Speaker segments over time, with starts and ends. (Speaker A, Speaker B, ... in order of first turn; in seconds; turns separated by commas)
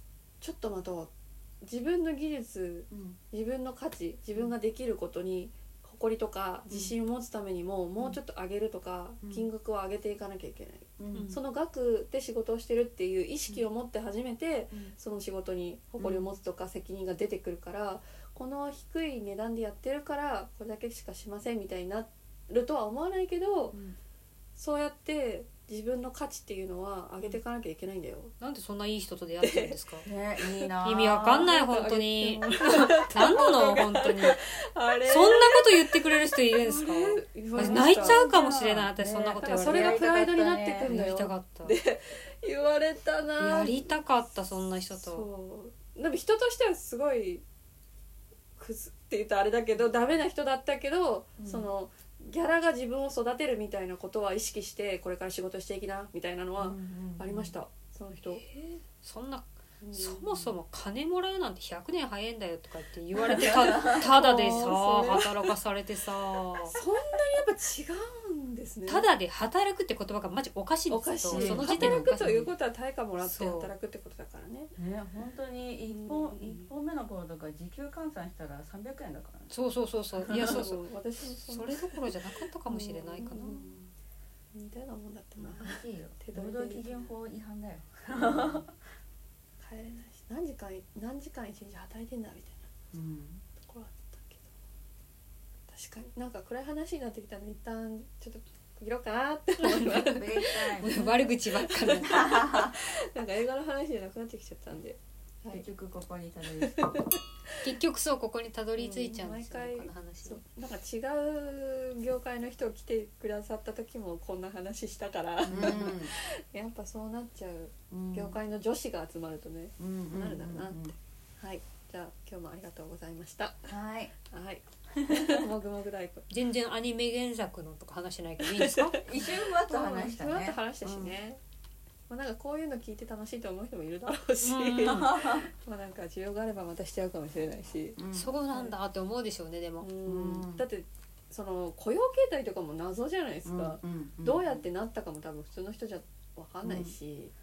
Speaker A: 0.4-23.8, Speaker B: 2.9-3.2, Speaker B: 6.7-6.9, Speaker B: 11.0-11.3, Speaker C: 11.1-11.4, Speaker B: 16.0-16.4, Speaker B: 23.7-24.0, Speaker A: 24.6-28.3, Speaker C: 28.4-30.1, Speaker A: 29.4-29.8, Speaker B: 30.0-31.5, Speaker A: 30.4-30.7, Speaker C: 30.8-34.4, Speaker A: 31.2-38.2, Speaker C: 34.9-40.0, Speaker B: 37.5-41.0, Speaker A: 39.4-43.9, Speaker C: 40.8-41.8, Speaker C: 43.4-45.2, Speaker A: 44.9-47.4, Speaker A: 48.6-58.5, Speaker B: 51.4-51.7, Speaker B: 56.6-57.5, Speaker C: 58.4-66.8, Speaker A: 59.8-60.5, Speaker B: 63.2-64.1, Speaker A: 63.3-65.5, Speaker A: 66.6-69.1, Speaker C: 68.9-72.5, Speaker A: 70.9-74.7, Speaker B: 71.3-72.4, Speaker C: 73.2-73.7, Speaker B: 74.8-79.5, Speaker A: 75.9-76.7, Speaker C: 79.5-80.8, Speaker B: 80.2-80.6, Speaker A: 80.2-82.1, Speaker C: 81.5-83.7, Speaker A: 82.7-83.9, Speaker A: 84.5-87.1, Speaker B: 85.4-88.8, Speaker A: 88.1-88.6, Speaker A: 89.6-92.7, Speaker B: 92.9-93.4, Speaker A: 93.6-94.5, Speaker A: 95.7-105.7, Speaker B: 99.8-101.3, Speaker C: 100.8-102.2, Speaker B: 101.9-102.8, Speaker B: 105.5-107.1, Speaker A: 106.6-107.6, Speaker C: 107.6-110.4, Speaker A: 108.8-123.7, Speaker B: 115.5-116.1, Speaker B: 117.9-118.4, Speaker B: 119.8-120.9, Speaker B: 123.7-124.1, Speaker A: 124.3-126.3, Speaker B: 124.9-125.4, Speaker C: 126.3-129.1, Speaker A: 128.4-131.4, Speaker B: 129.0-131.2, Speaker A: 132.1-138.0, Speaker C: 134.4-135.0, Speaker B: 134.8-135.5, Speaker B: 137.9-138.3, Speaker C: 138.1-139.9, Speaker A: 138.5-138.8, Speaker A: 139.8-147.3, Speaker B: 140.1-140.6, Speaker B: 143.4-144.7, Speaker B: 146.6-146.9